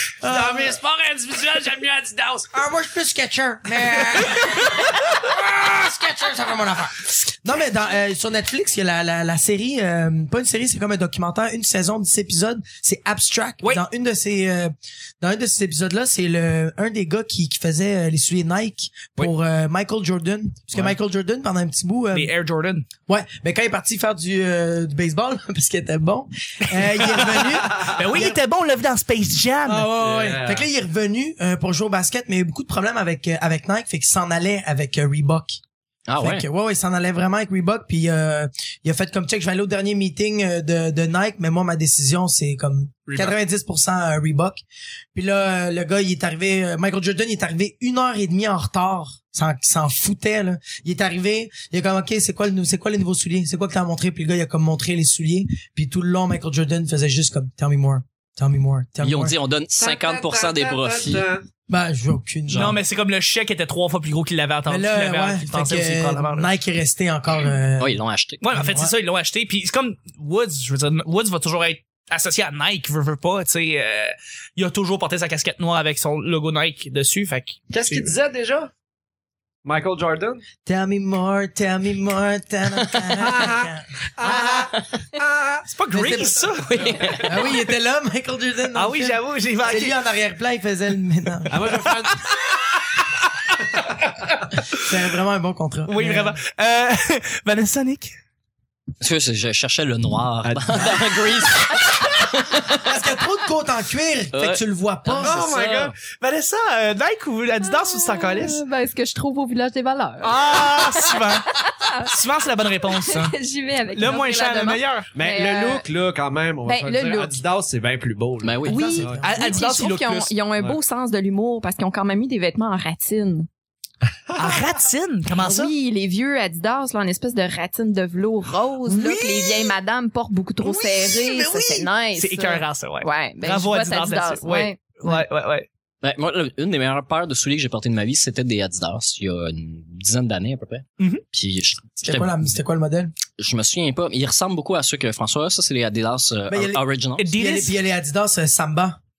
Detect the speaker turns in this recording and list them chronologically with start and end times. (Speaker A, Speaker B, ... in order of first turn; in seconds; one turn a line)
Speaker A: 0.2-0.8
Speaker B: 0.2-2.5
Speaker A: 2.5-22.3
Speaker C: 22.1-22.9
Speaker A: 23.1-28.4
Speaker C: 26.8-29.9
Speaker A: 29.6-35.6
Speaker B: 30.0-30.6
Speaker D: 36.1-36.5
Speaker A: 36.2-44.6
Speaker C: 43.1-43.4
Speaker A: 45.1-59.3
Speaker D: 59.0-61.3
Speaker B: 59.8-61.4
Speaker A: 61.7-62.8
Speaker C: 62.5-66.5
Speaker A: 64.7-68.0
Speaker D: 67.8-68.5
Speaker C: 68.4-78.1
Speaker A: 68.5-68.9
Speaker B: 77.7-78.7
Speaker B: 79.6-80.4
Speaker A: 80.6-84.7
Speaker B: 83.2-83.7
Speaker B: 84.2-85.6
Speaker C: 85.7-87.2
Speaker A: 85.9-86.5
Speaker D: 86.7-87.5
Speaker A: 87.1-91.8
Speaker C: 88.7-90.0
Speaker B: 91.5-92.2
Speaker C: 92.3-93.1
Speaker C: 93.9-94.8
Speaker A: 94.7-96.4
Speaker C: 95.8-98.1
Speaker D: 99.0-103.0
Speaker A: 102.7-105.4
Speaker D: 104.3-105.9
Speaker B: 105.2-105.9
Speaker C: 106.2-108.6
Speaker E: 107.6-110.5
Speaker C: 110.2-113.3
Speaker E: 111.6-112.1
Speaker E: 112.9-115.9
Speaker C: 113.9-115.1
Speaker B: 115.1-119.2
Speaker E: 116.6-117.4
Speaker D: 118.4-119.0
Speaker E: 118.6-123.5
Speaker A: 118.6-119.5
Speaker C: 119.2-120.3
Speaker B: 124.3-124.6
Speaker C: 124.3-125.7
Speaker E: 125.4-135.2
Speaker C: 128.8-129.7
Speaker C: 130.6-135.7
Speaker D: 136.0-142.3
Speaker A: 142.0-143.2
Speaker D: 143.4-147.3
Speaker A: 146.5-149.0
Speaker C: 147.2-147.7